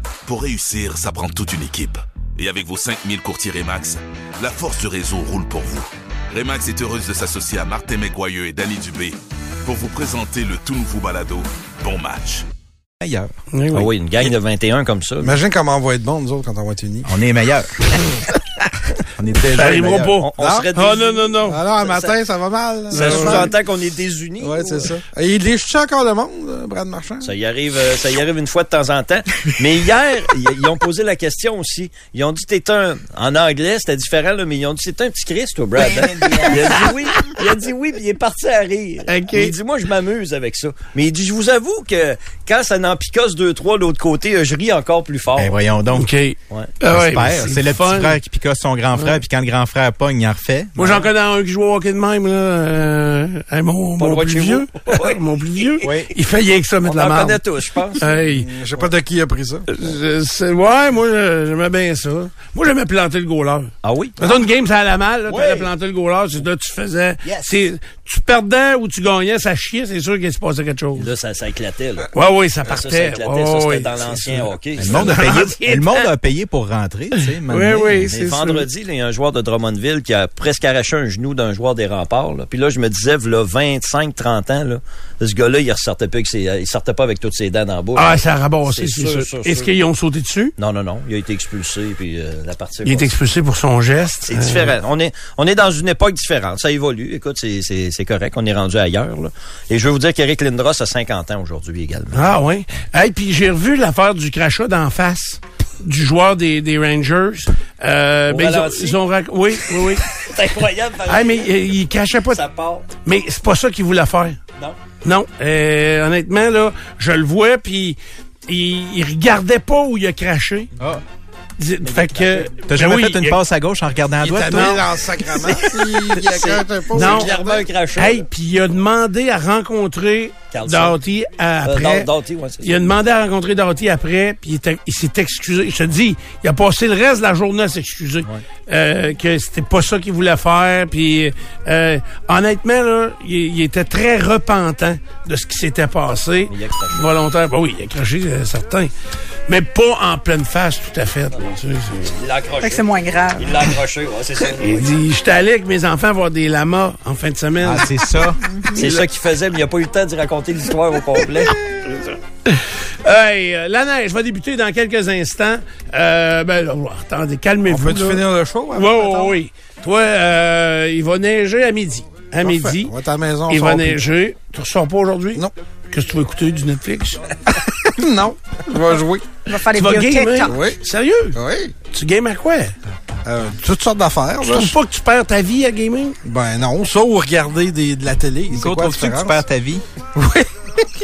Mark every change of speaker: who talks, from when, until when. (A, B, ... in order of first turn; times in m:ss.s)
0:00.2-0:12.4 A
0:13.0-0:13.3 B
0:13.5-0:13.9 C
0:13.7-0:15.4 D
0:15.2-0:17.1 E
0:17.0-0:17.9 B
0:19.1-0:20.2 B
0:19.5-0:21.6 C
0:20.1-0:22.2 D
0:20.4-0:20.7 E
0:21.4-0:23.6 E
0:22.9-0:23.5 C
0:22.9-0:24.9 D
0:24.4-0:27.3 E
0:27.2-0:45.5 D
0:35.9-0:36.7 F
0:36.6-0:36.9 C
0:39.1-0:39.5 C
0:45.4-0:46.1 B
0:45.9-0:48.2 C
0:46.8-0:51.1 B
0:50.8-0:57.4 C
0:54.0-0:55.9 D
0:55.8-0:56.1 B
0:56.8-0:58.1 D
0:57.9-0:58.5 C
0:58.2-0:59.7 E
0:59.7-1:11.1 C
1:03.8-1:04.2 D
1:05.3-1:05.6 B
1:11.0-1:12.1 D
1:12.1-1:16.1 C
1:12.6-1:15.3 D
1:14.8-1:18.1 B
1:17.2-1:18.6 C
1:18.1-1:29.7 D
1:27.9-1:30.5 C
1:30.6-1:33.1 D
1:32.8-1:34.7 C
1:34.3-1:42.3 D
1:42.1-1:50.2 C
1:48.3-1:49.0 D
1:50.1-1:51.6 D
1:51.0-1:52.4 C
1:52.3-1:52.9 D
1:53.0-1:54.4 C
1:55.0-2:00.7 C
2:01.6-2:03.4 C
2:01.8-2:02.6 D
2:02.7-2:04.8 B
2:04.2-2:07.6 E
2:04.4-2:04.8 C
2:05.3-2:08.2 D
2:06.9-2:07.3 C
2:08.0-2:12.1 C
2:10.5-2:11.0 D
2:11.6-2:12.8 D
2:12.6-2:28.9 C
2:26.5-2:27.1 D
2:29.5-2:32.1 C
2:32.0-2:34.8 D
2:32.6-2:33.7 F
2:34.6-2:37.9 C
2:37.6-2:38.8 B
2:38.4-2:38.8 F
2:38.7-2:41.6 D
2:41.5-2:52.9 C
2:47.7-2:49.4 E
2:52.4-2:54.0 E
2:53.5-2:57.2 C
2:57.5-2:59.2 E
2:59.5-3:00.6 F
2:59.7-3:01.4 C
3:00.4-3:00.8 E
3:01.3-3:01.7 E
3:01.9-3:02.7 C
3:03.2-3:04.8 E
3:04.4-3:06.2 C
3:06.2-3:09.4 E
3:08.5-3:09.8 B
3:10.2-3:10.5 E